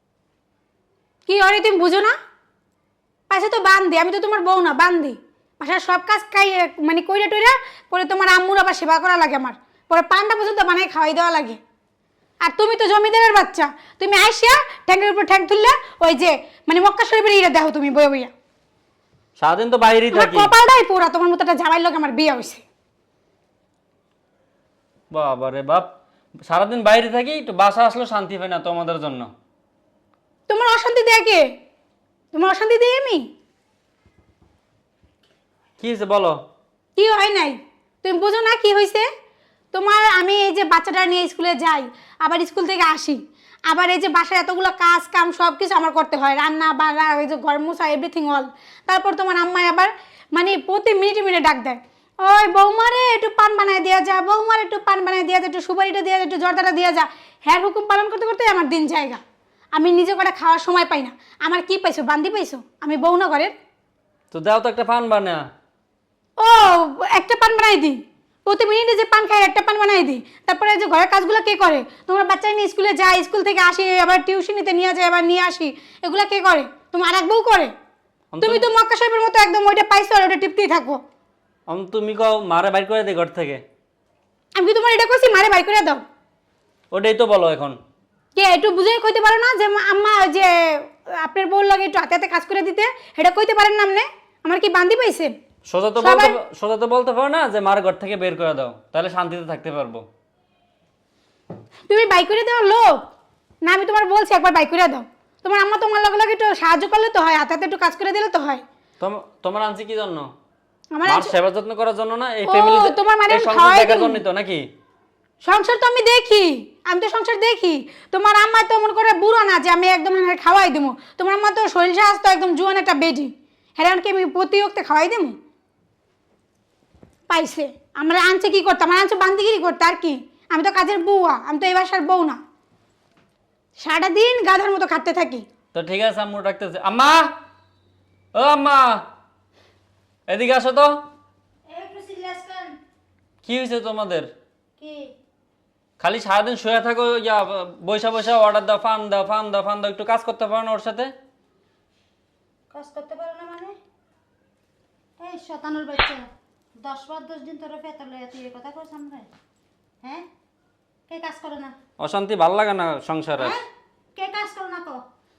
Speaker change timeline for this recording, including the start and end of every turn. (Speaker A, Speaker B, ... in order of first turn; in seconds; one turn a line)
Speaker A: 1.3-2.2
Speaker A: 3.3-11.6
Speaker A: 12.4-18.3
Speaker B: 19.4-20.5
Speaker A: 20.1-22.6
Speaker B: 25.1-25.9
Speaker B: 26.5-29.3
Speaker A: 30.5-31.5
Speaker A: 32.3-33.2
Speaker B: 35.8-36.4
Speaker A: 37.0-39.1
Speaker A: 39.7-59.2
Speaker A: 59.7-63.5
Speaker B: 64.3-65.5
Speaker A: 66.4-77.7
Speaker B: 78.3-78.7
Speaker A: 78.4-81.0
Speaker B: 81.7-83.6
Speaker A: 84.5-86.0
Speaker B: 86.9-87.8
Speaker A: 88.3-95.3
Speaker B: 95.7-100.1
Speaker A: 96.0-96.4
Speaker A: 101.9-103.0
Speaker A: 103.7-108.6
Speaker B: 109.0-110.3
Speaker A: 110.9-111.3
Speaker B: 111.0-114.7
Speaker A: 112.5-114.2
Speaker A: 115.4-125.4
Speaker A: 127.3-132.4
Speaker A: 133.8-135.4
Speaker B: 135.7-137.3
Speaker B: 138.3-139.0
Speaker B: 140.3-141.0
Speaker C: 141.7-142.8
Speaker B: 143.4-144.3
Speaker C: 144.8-145.1
Speaker B: 146.0-151.1
Speaker C: 152.7-153.8
Speaker C: 155.2-156.2
Speaker C: 156.8-159.3
Speaker C: 161.1-161.7
Speaker B: 162.0-163.6
Speaker C: 163.4-163.7
Speaker C: 164.2-165.0